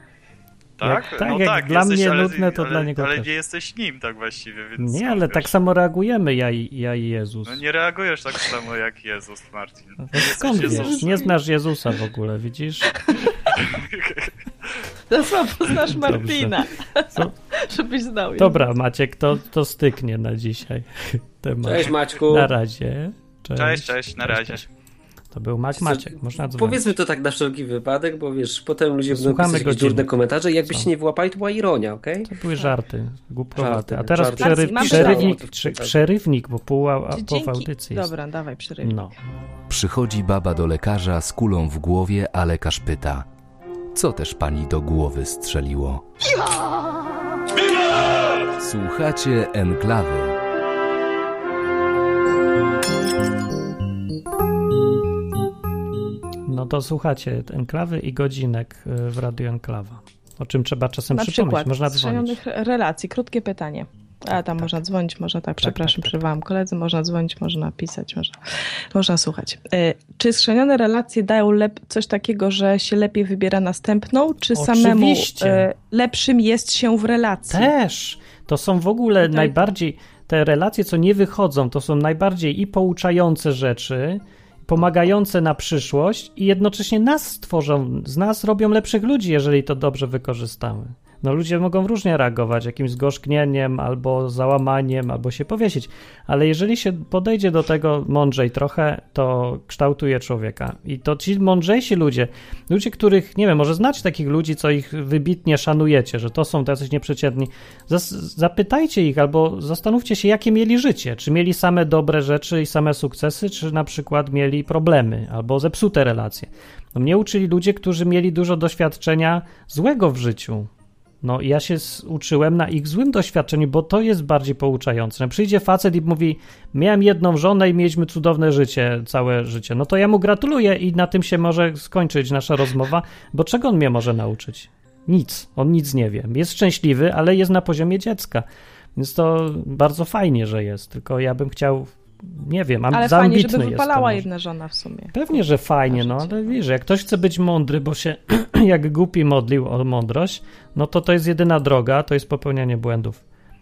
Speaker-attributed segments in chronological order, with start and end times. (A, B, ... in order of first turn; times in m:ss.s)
0:00.8-0:05.5 A
0:00.8-0:03.3 B
0:04.8-0:07.6 B
0:07.5-0:11.3 A
0:10.1-0:13.0 B
0:10.7-0:11.2 C
0:13.5-0:14.7 A
0:15.1-0:18.7 C
0:15.8-0:17.3 B
0:18.4-0:24.6 B
0:21.6-0:22.5 D
0:23.6-0:24.7 A
0:25.3-0:26.9 B
0:25.8-0:32.3 D
0:29.1-0:30.1 B
0:32.3-0:38.1 B
0:33.6-0:36.0 D
0:34.3-0:35.4 C
0:37.1-0:39.1 C
0:38.8-0:39.2 B
0:39.7-0:43.3 E
0:43.9-0:46.0 E
0:48.6-0:50.4 E
0:56.5-1:02.4 B
1:01.1-1:08.4 C
1:04.3-1:04.7 B
1:05.6-1:06.2 B
1:08.9-1:17.7 C
1:14.5-1:15.7 B
1:17.5-2:00.7 B
1:19.3-1:19.6 C
2:01.2-2:24.3 B
2:22.9-2:25.4 C
2:25.1-2:33.2 B
2:25.9-2:26.5 C